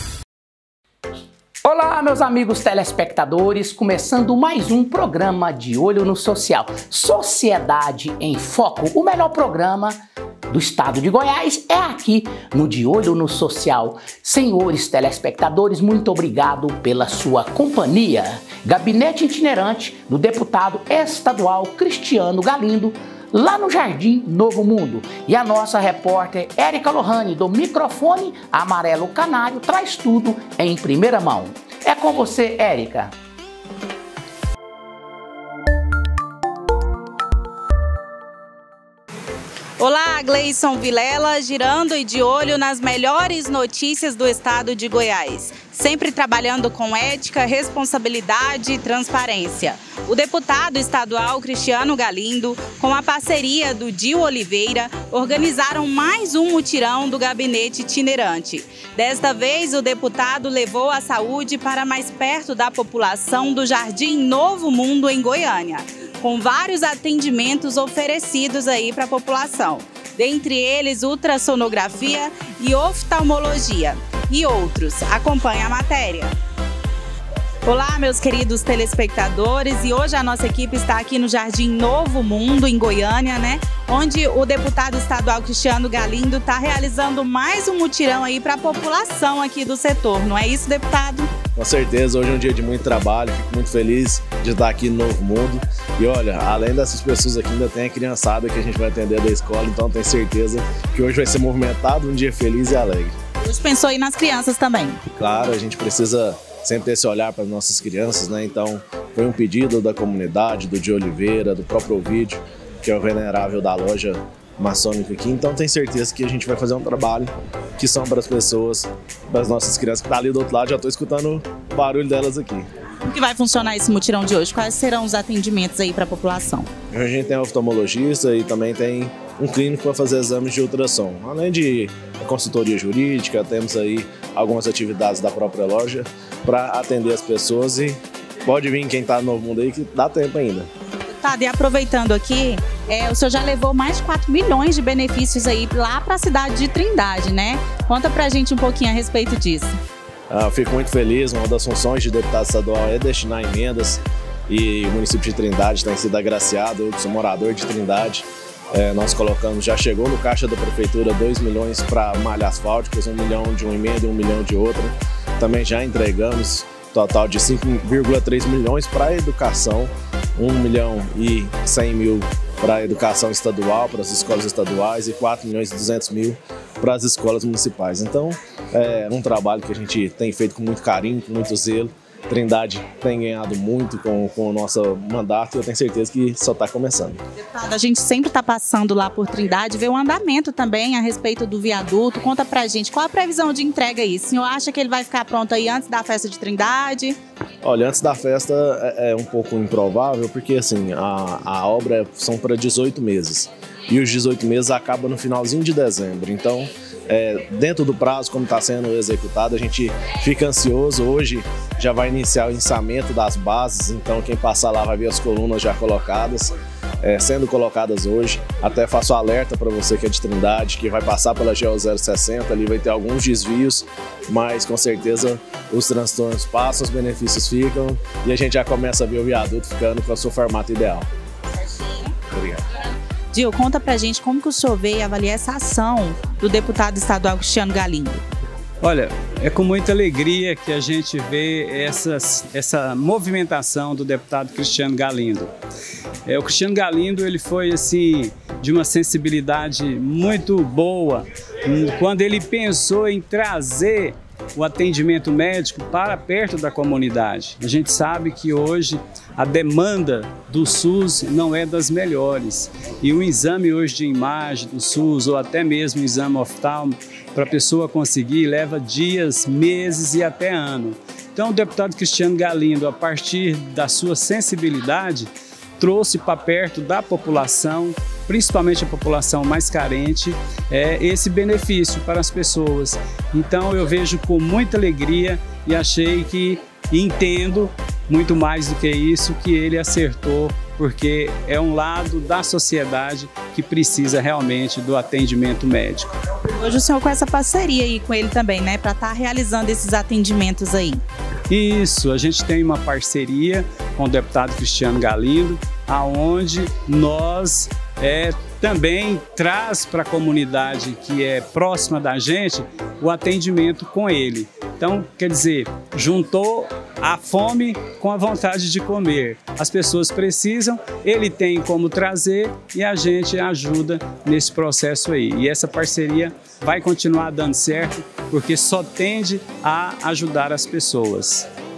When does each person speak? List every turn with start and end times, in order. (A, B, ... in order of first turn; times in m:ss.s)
0:01.6-0:33.1 A
0:39.8-1:16.3 B
1:17.6-1:31.3 B
1:31.6-1:43.2 C
1:43.4-1:45.0 B
1:45.2-2:02.7 C
2:03.0-2:06.7 B
2:06.9-2:20.7 C
2:21.1-2:29.8 B
2:30.3-3:07.2 C
3:07.4-3:17.2 B
3:17.6-3:51.1 C
3:52.3-3:52.6 C
3:53.3-3:58.2 B
3:58.8-4:05.5 D
4:06.3-4:56.1 D
4:56.6-5:01.0 B
5:01.5-5:31.5 D